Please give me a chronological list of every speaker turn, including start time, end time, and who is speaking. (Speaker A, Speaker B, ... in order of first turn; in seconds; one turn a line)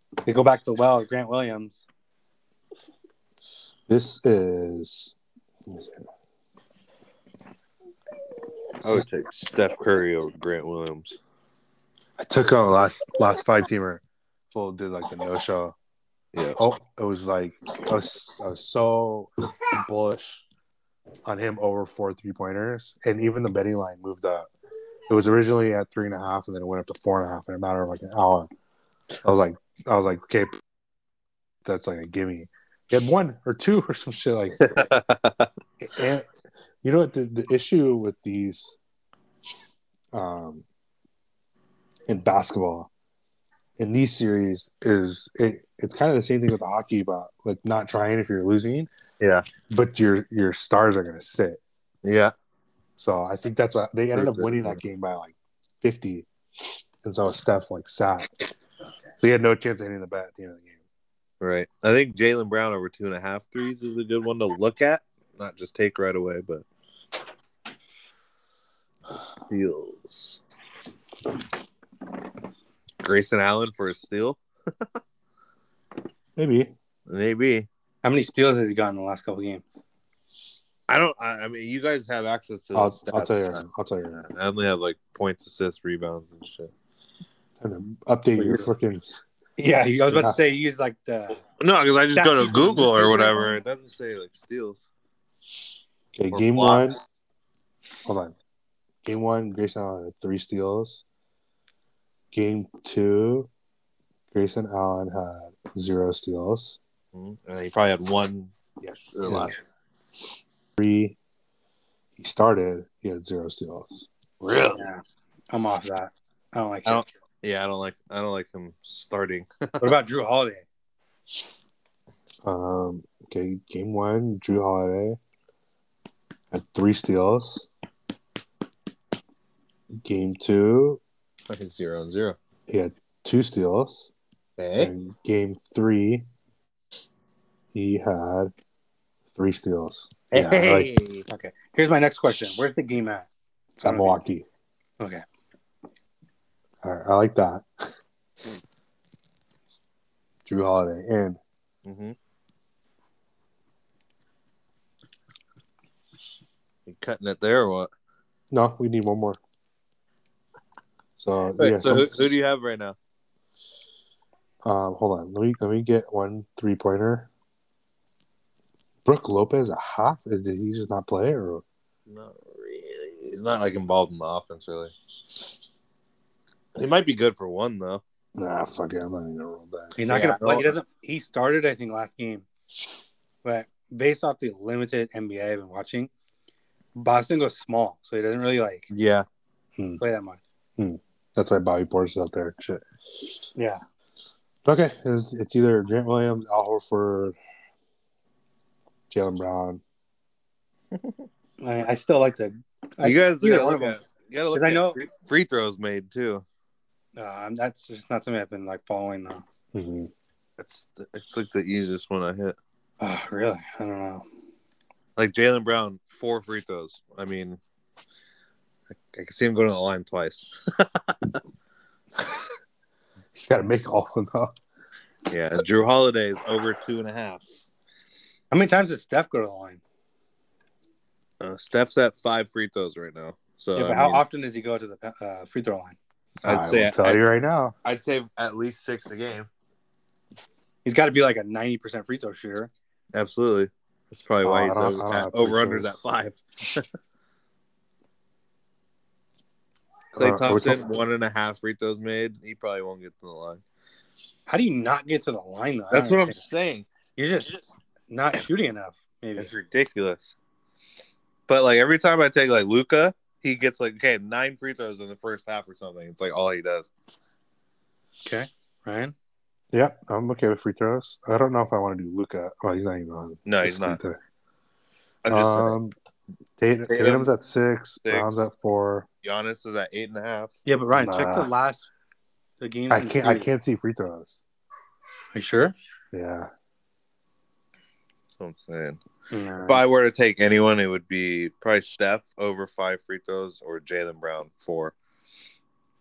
Speaker A: 0.3-1.8
Speaker B: 3.9-6.0
Speaker C: 8.8-11.2
Speaker B: 12.2-15.8
Speaker C: 16.3-16.6
Speaker B: 16.6-20.4
Speaker B: 21.2-24.5
Speaker B: 25.1-28.5
Speaker B: 29.2-30.6
Speaker B: 31.6-34.8
Speaker C: 34.6-35.5
Speaker B: 35.8-36.3
Speaker B: 36.8-38.8
Speaker B: 40.1-40.6
Speaker B: 42.1-42.9
Speaker B: 43.8-48.9
Speaker C: 49.2-49.5
Speaker B: 49.7-51.6
Speaker C: 52.0-52.3
Speaker B: 53.0-56.3
Speaker C: 54.1-54.8
Speaker B: 57.0-58.3
Speaker B: 59.2-60.8
Speaker C: 61.4-66.7
Speaker C: 69.5-70.4
Speaker C: 73.0-74.4
Speaker B: 76.4-76.7
Speaker C: 77.1-77.7
Speaker A: 78.0-79.6
Speaker C: 80.9-83.6
Speaker B: 82.8-84.3
Speaker C: 84.2-86.7
Speaker B: 87.6-89.2
Speaker A: 88.4-88.7
Speaker A: 89.6-91.4
Speaker B: 90.1-90.4
Speaker C: 91.6-94.9
Speaker A: 92.1-93.5
Speaker B: 96.1-97.0
Speaker C: 96.3-96.9
Speaker B: 98.0-98.3
Speaker B: 99.0-101.0
Speaker B: 102.3-103.5
Speaker B: 104.3-106.8
Speaker C: 107.1-109.6
Speaker B: 109.3-109.5
Speaker B: 110.8-111.2
Speaker B: 112.2-114.1
Speaker C: 114.4-114.8
Speaker A: 114.7-117.0
Speaker C: 116.9-120.0
Speaker A: 119.8-120.7
Speaker B: 122.4-125.2
Speaker B: 126.5-127.7
Speaker B: 130.0-131.0
Speaker C: 131.5-132.4
Speaker B: 132.7-134.1
Speaker C: 134.6-134.9
Speaker B: 134.8-136.3
Speaker B: 137.7-138.5
Speaker B: 139.3-140.9
Speaker C: 140.3-141.2
Speaker A: 141.3-143.3
Speaker B: 143.8-144.5
Speaker A: 143.8-144.2
Speaker B: 146.8-147.7
Speaker B: 150.5-151.4
Speaker C: 151.8-152.2
Speaker C: 156.9-157.9
Speaker B: 158.5-159.4
Speaker B: 161.2-162.4
Speaker C: 161.6-163.0
Speaker B: 164.7-167.3
Speaker B: 169.1-171.6
Speaker C: 172.1-174.9
Speaker C: 176.8-178.0
Speaker B: 178.4-180.0
Speaker A: 180.0-182.5
Speaker C: 180.1-180.7
Speaker A: 183.4-186.1
Speaker A: 187.0-188.9
Speaker C: 188.9-189.3
Speaker B: 189.8-190.0
Speaker A: 190.0-190.4
Speaker B: 190.8-192.8
Speaker A: 193.6-193.8
Speaker B: 194.7-197.4
Speaker B: 199.1-199.8
Speaker A: 201.6-204.0
Speaker C: 203.0-206.4
Speaker A: 204.5-205.0
Speaker A: 207.2-209.4
Speaker B: 209.7-210.1
Speaker C: 210.6-212.6
Speaker A: 213.0-214.2
Speaker C: 215.2-217.6
Speaker C: 219.1-221.4
Speaker B: 223.3-224.6
Speaker C: 225.3-227.4
Speaker A: 228.5-229.8
Speaker C: 231.4-234.2
Speaker A: 233.8-236.0
Speaker C: 236.4-239.5
Speaker B: 236.4-237.8
Speaker A: 240.8-242.7
Speaker C: 243.1-246.9
Speaker B: 244.4-246.0
Speaker C: 250.1-253.6
Speaker B: 250.2-250.9
Speaker A: 254.5-256.4
Speaker C: 255.9-256.9
Speaker A: 257.2-259.5
Speaker C: 259.4-260.4
Speaker C: 261.5-266.9
Speaker A: 268.3-269.1
Speaker B: 269.7-274.2
Speaker C: 273.5-274.0
Speaker C: 275.2-275.8
Speaker B: 275.3-275.9
Speaker B: 276.6-279.1
Speaker C: 276.9-277.3
Speaker C: 278.1-278.4
Speaker C: 279.2-280.6
Speaker A: 280.7-281.9
Speaker B: 280.9-281.5
Speaker A: 282.6-283.5
Speaker B: 282.9-284.4
Speaker A: 285.3-285.8
Speaker B: 286.1-286.5
Speaker C: 288.4-289.0
Speaker A: 289.3-289.8
Speaker C: 289.7-294.9